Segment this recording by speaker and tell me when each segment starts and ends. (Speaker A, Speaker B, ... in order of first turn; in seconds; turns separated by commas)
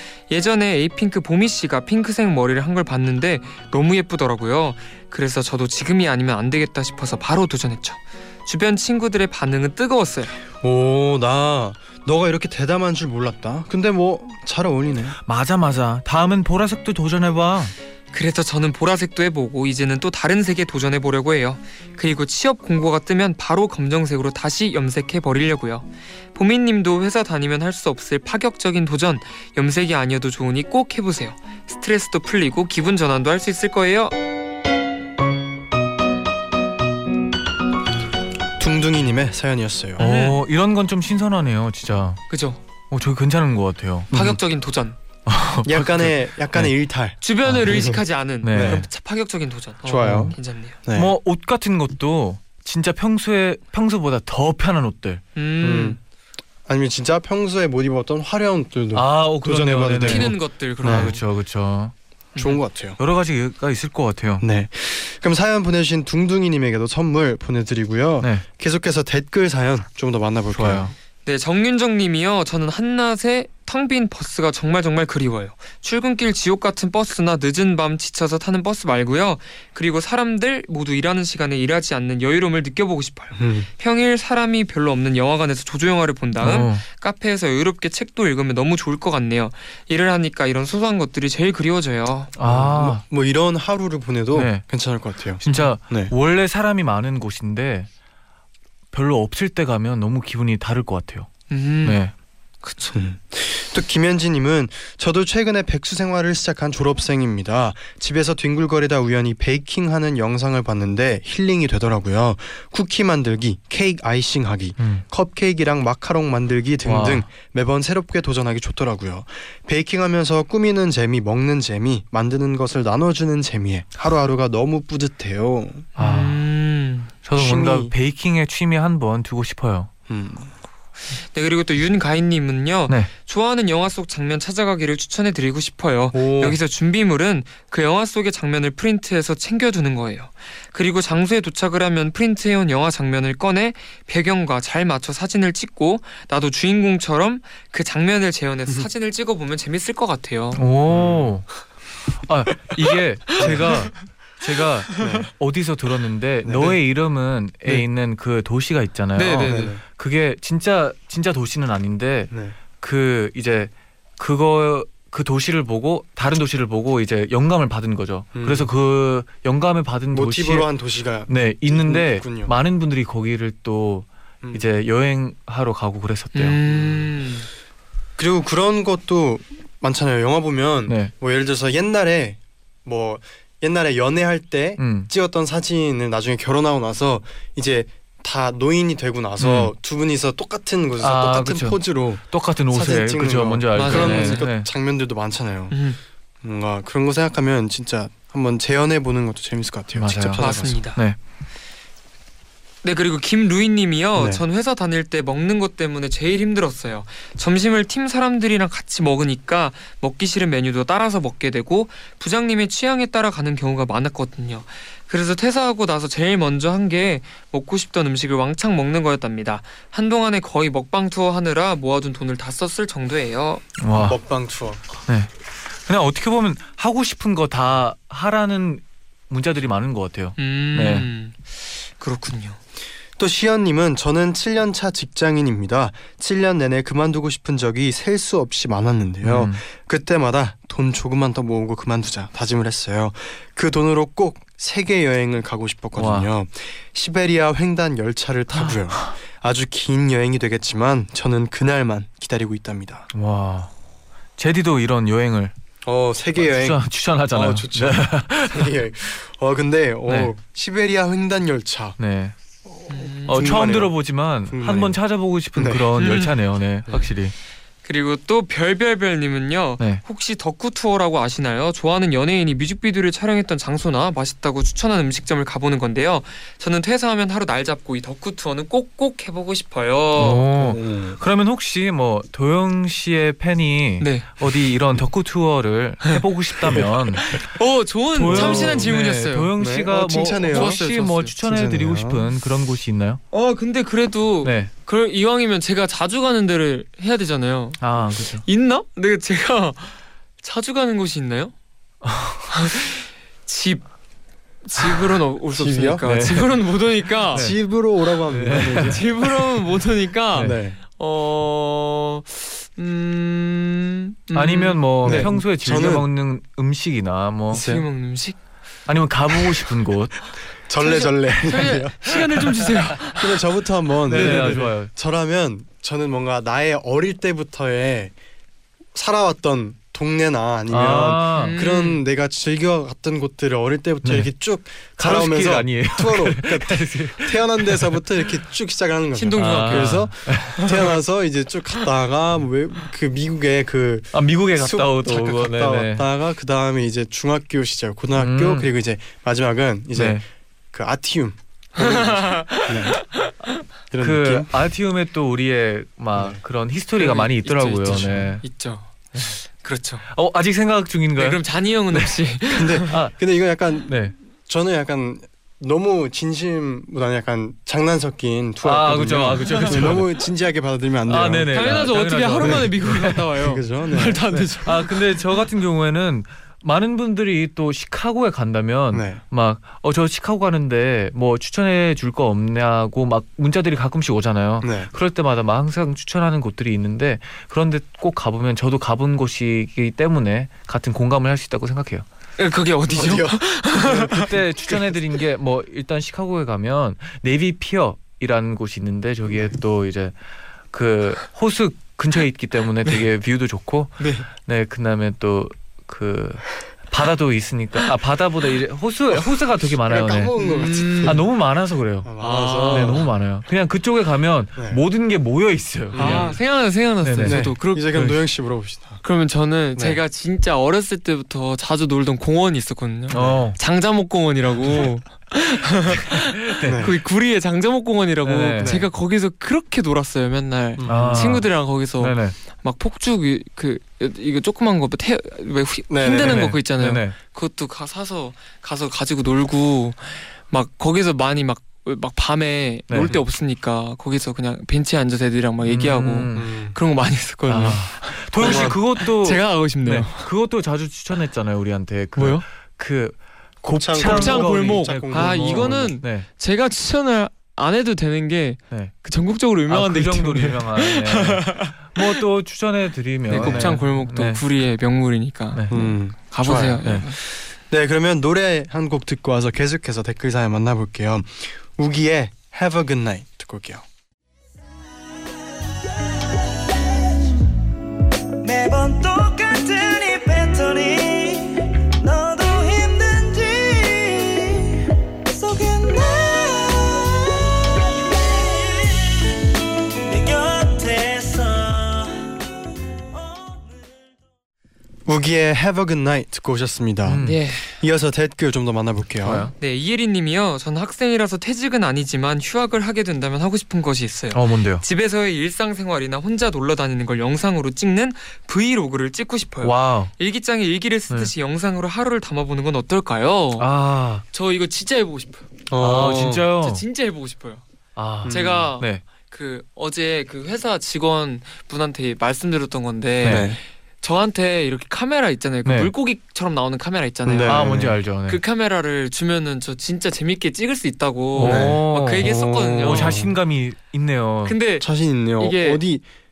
Speaker A: 0.3-10.4, Speaker B: 10.6-15.2, Speaker C: 15.3-17.7, Speaker A: 18.1-34.1, Speaker B: 38.6-40.0, Speaker A: 40.0-40.4, Speaker C: 40.0-42.2, Speaker A: 42.3-42.6, Speaker C: 42.9-44.1, Speaker B: 44.1-44.4, Speaker A: 44.1-45.0, Speaker C: 45.3-46.7, Speaker B: 45.6-48.0, Speaker A: 47.2-50.8, Speaker C: 48.4-48.9, Speaker B: 48.5-48.9, Speaker B: 49.9-51.1, Speaker C: 50.0-50.4, Speaker C: 50.9-55.2, Speaker A: 55.4-56.0, Speaker B: 55.6-56.0, Speaker B: 56.7-61.1, Speaker C: 58.9-61.9, Speaker A: 60.0-61.2, Speaker B: 62.4-63.0, Speaker C: 63.0-64.5, Speaker B: 64.4-70.9, Speaker C: 70.5-70.9, Speaker A: 71.2-92.3, Speaker B: 83.4-83.7, Speaker C: 86.4-86.8, Speaker C: 92.4-93.0, Speaker B: 92.4-96.1, Speaker C: 94.3-94.9, Speaker C: 95.4-97.9, Speaker A: 95.5-95.7, Speaker C: 98.9-101.3, Speaker A: 101.5-102.0, Speaker C: 101.8-102.1, Speaker A: 102.6-103.0, Speaker B: 102.9-125.9, Speaker C: 114.8-115.0, Speaker C: 116.8-117.3, Speaker A: 126.0-127.1, Speaker C: 126.0-126.4, Speaker C: 127.2-129.9, Speaker B: 127.4-127.9, Speaker B: 130.1-130.5, Speaker A: 131.2-150.6, Speaker B: 136.1-136.6, Speaker C: 150.5-151.6, Speaker B: 150.9-151.3, Speaker C: 152.2-170.7, Speaker B: 153.4-153.8, Speaker B: 155.0-155.3, Speaker B: 156.4-156.8, Speaker A: 159.2-159.8, Speaker B: 159.4-159.8, Speaker B: 162.3-162.6, Speaker B: 168.3-168.7, Speaker B: 170.1-172.5, Speaker C: 171.3-176.6, Speaker A: 176.3-177.5, Speaker B: 176.7-177.0, Speaker B: 178.2-195.8, Speaker C: 180.9-181.1, Speaker C: 184.8-185.1, Speaker C: 189.4-189.7, Speaker C: 191.0-194.7, Speaker A: 193.7-194.5, Speaker A: 195.7-196.0, Speaker B: 196.4-200.8, Speaker C: 199.9-201.2, Speaker A: 200.4-201.0, Speaker A: 202.8-223.7, Speaker B: 204.2-204.4, Speaker C: 223.8-224.2, Speaker B: 223.9-224.8, Speaker C: 225.9-231.1, Speaker A: 230.4-232.6, Speaker B: 233.2-253.1, Speaker C: 239.2-239.6, Speaker C: 246.0-246.3, Speaker C: 253.1-253.7, Speaker C: 254.4-255.5, Speaker B: 255.8-256.8, Speaker C: 256.4-258.7, Speaker B: 257.3-262.0, Speaker C: 260.1-260.3, Speaker C: 262.0-262.4, Speaker B: 262.7-264.0, Speaker A: 262.9-263.6, Speaker C: 263.3-267.3, Speaker B: 264.5-265.0, Speaker B: 265.6-265.9, Speaker A: 266.0-266.3, Speaker A: 267.8-280.5, Speaker C: 280.2-287.4, Speaker B: 280.6-281.2, Speaker A: 284.0-284.5, Speaker A: 286.0-289.5, Speaker C: 288.1-293.2, Speaker B: 288.3-288.9, Speaker B: 289.6-290.8, Speaker A: 290.5-291.4, Speaker B: 291.4-292.2, Speaker A: 293.3-301.5, Speaker C: 294.4-294.7, Speaker C: 297.8-298.5, Speaker C: 302.0-302.7, Speaker A: 302.5-303.9, Speaker A: 304.6-307.5, Speaker B: 305.5-306.1, Speaker C: 306.1-306.6, Speaker C: 307.3-307.6, Speaker B: 307.4-309.2, Speaker C: 308.3-309.0, Speaker A: 308.8-315.3, Speaker C: 310.3-310.6, Speaker B: 310.4-310.8, Speaker C: 314.3-317.6, Speaker B: 315.0-316.1, Speaker B: 317.5-317.9, Speaker A: 317.5-318.4, Speaker C: 318.9-320.3, Speaker B: 320.7-328.1, Speaker A: 320.8-323.4, Speaker C: 324.1-324.9, Speaker A: 324.1-324.7, Speaker B: 328.9-353.0, Speaker C: 330.7-331.6, Speaker A: 331.4-332.0, Speaker C: 334.0-334.3, Speaker C: 335.0-338.0, Speaker A: 339.1-340.6, Speaker C: 339.4-340.8, Speaker C: 344.1-346.1, Speaker C: 348.2-348.7, Speaker C: 349.9-350.2, Speaker A: 351.8-353.3, Speaker B: 353.9-354.5, Speaker C: 354.0-358.4, Speaker A: 357.0-360.0, Speaker B: 357.9-358.2, Speaker C: 360.1-362.2, Speaker A: 361.2-362.9, Speaker B: 362.5-374.4, Speaker C: 362.9-363.2, Speaker C: 363.9-364.1, Speaker C: 368.6-370.1, Speaker A: 369.5-370.0, Speaker C: 371.1-373.2, Speaker A: 371.5-374.9, Speaker C: 374.6-392.1, Speaker B: 378.9-379.2, Speaker B: 384.6-384.9, Speaker A: 392.4-394.2, Speaker B: 392.9-395.0, Speaker C: 394.1-400.2, Speaker C: 400.7-410.4, Speaker A: 404.0-404.3, Speaker B: 409.9-411.2, Speaker A: 410.4-411.2, Speaker C: 410.9-416.4, Speaker B: 412.0-413.1, Speaker A: 412.2-413.1, Speaker B: 414.6-414.8, Speaker A: 415.9-418.1, Speaker B: 415.9-416.4, Speaker C: 417.0-418.2, Speaker B: 417.2-419.0, Speaker A: 419.0-450.3, Speaker B: 419.8-420.0, Speaker C: 423.1-423.6, Speaker B: 423.1-423.4, Speaker C: 426.4-426.9, Speaker B: 426.6-426.9, Speaker C: 428.2-428.8, Speaker B: 428.6-428.9, Speaker B: 430.8-431.4, Speaker C: 430.9-432.4, Speaker B: 435.9-436.5, Speaker C: 436.2-437.2, Speaker C: 442.9-443.1, Speaker C: 445.6-446.5, Speaker B: 446.3-446.8, Speaker C: 447.5-456.3, Speaker B: 448.4-448.8, Speaker A: 452.2-452.4, Speaker B: 453.6-456.0, Speaker A: 454.0-462.2, Speaker C: 459.7-464.4, Speaker A: 463.3-467.2, Speaker B: 463.3-463.8, Speaker C: 465.5-465.8, Speaker B: 465.7-473.9, Speaker D: 476.1-477.0, Speaker D: 478.4-484.8, Speaker D: 485.3-487.5, Speaker D: 488.2-489.3, Speaker D: 490.1-492.3, Speaker D: 493.1-494.1, Speaker B: 495.1-499.5, Speaker C: 497.1-497.4, Speaker A: 497.2-497.7, Speaker C: 499.2-499.5, Speaker A: 499.6-513.7, Speaker C: 504.3-504.8, Speaker C: 509.6-510.1, Speaker C: 513.6-514.2, Speaker A: 514.3-515.5, Speaker B: 515.7-516.5, Speaker C: 515.8-516.8, Speaker A: 516.6-517.6, Speaker C: 518.0-519.0, Speaker B: 518.2-518.7, Speaker A: 518.3-533.2, Speaker C: 523.2-523.5, Speaker B: 523.2-523.6, Speaker C: 525.6-525.9, Speaker B: 527.2-528.0, Speaker C: 527.5-528.4, Speaker C: 531.4-534.6, Speaker B: 531.4-533.3, Speaker A: 534.4-535.8, Speaker B: 534.8-536.1